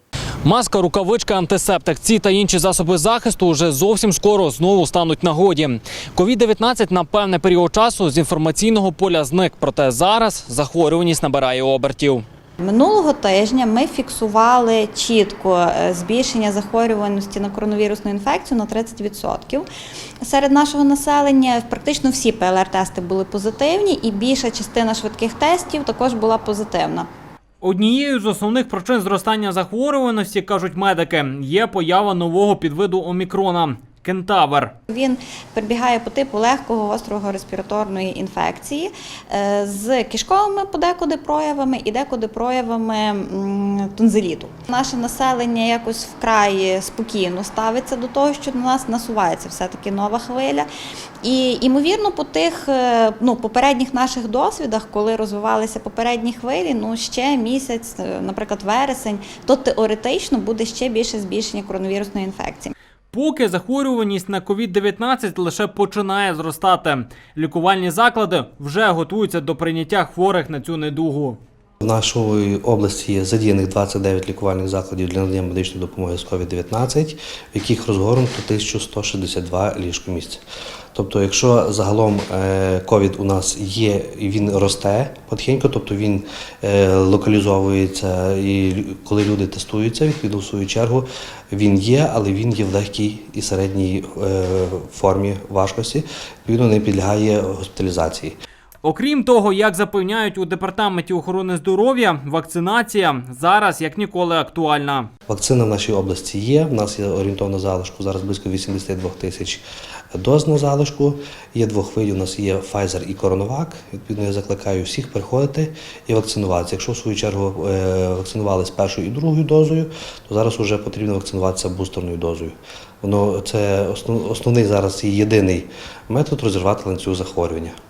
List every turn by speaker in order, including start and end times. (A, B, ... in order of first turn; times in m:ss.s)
0:00.4-0:12.2 A
0:12.6-0:19.6 B
0:20.2-0:27.1 B
0:27.6-0:34.7 A
0:34.9-0:50.7 B
0:51.2-1:02.7 B
1:03.1-1:11.4 A
1:11.8-1:20.4 C
1:20.9-1:38.4 C
1:38.8-1:45.1 A
1:45.3-2:07.8 C